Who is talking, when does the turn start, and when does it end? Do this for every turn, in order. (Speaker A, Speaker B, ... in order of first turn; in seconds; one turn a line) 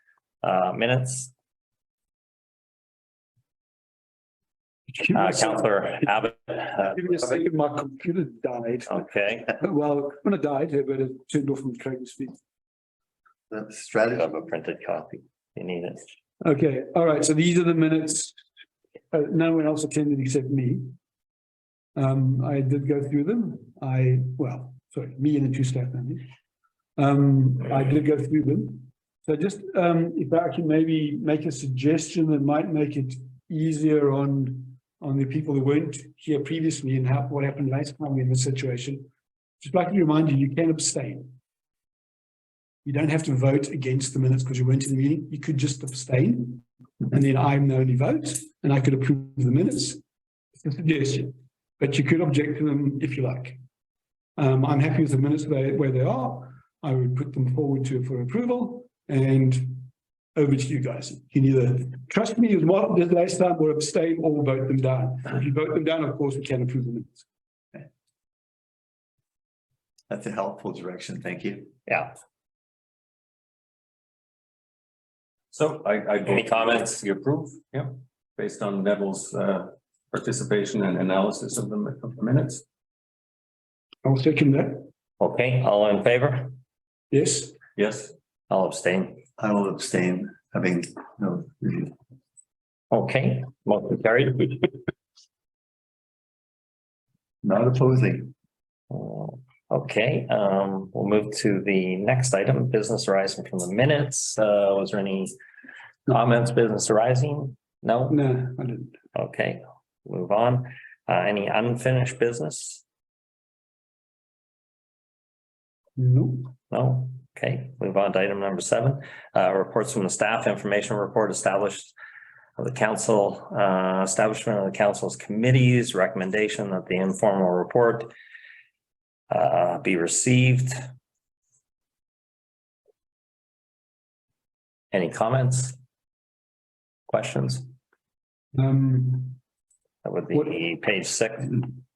Speaker A: 0.4-1.3
Speaker B: 4.9-6.0
Speaker A: 5.1-7.4
Speaker B: 6.8-9.0
Speaker A: 8.9-9.5
Speaker B: 9.6-12.4
Speaker C: 13.5-14.3
Speaker A: 14.1-16.1
Speaker B: 16.4-18.4
Speaker B: 19.1-20.9
Speaker B: 21.9-26.2
Speaker B: 27.0-39.1
Speaker B: 39.6-41.3
Speaker B: 42.8-50.0
Speaker B: 50.6-53.6
Speaker B: 54.4-67.2
Speaker C: 70.1-71.7
Speaker A: 71.9-72.2
Speaker D: 75.5-82.6
Speaker A: 76.3-77.0
Speaker B: 84.0-84.9
Speaker A: 85.2-86.6
Speaker B: 87.1-87.6
Speaker D: 87.8-88.1
Speaker A: 88.5-89.2
Speaker C: 89.4-91.9
Speaker A: 92.9-94.8
Speaker C: 97.4-98.3
Speaker A: 98.9-105.3
Speaker A: 106.1-108.2
Speaker B: 108.1-109.0
Speaker A: 109.1-112.8
Speaker B: 116.0-116.5
Speaker A: 116.7-121.9
Speaker A: 122.6-128.1
Speaker A: 129.3-130.8
Speaker A: 134.9-135.8
Speaker A: 137.1-137.7
Speaker B: 138.5-139.4
Speaker A: 140.0-141.7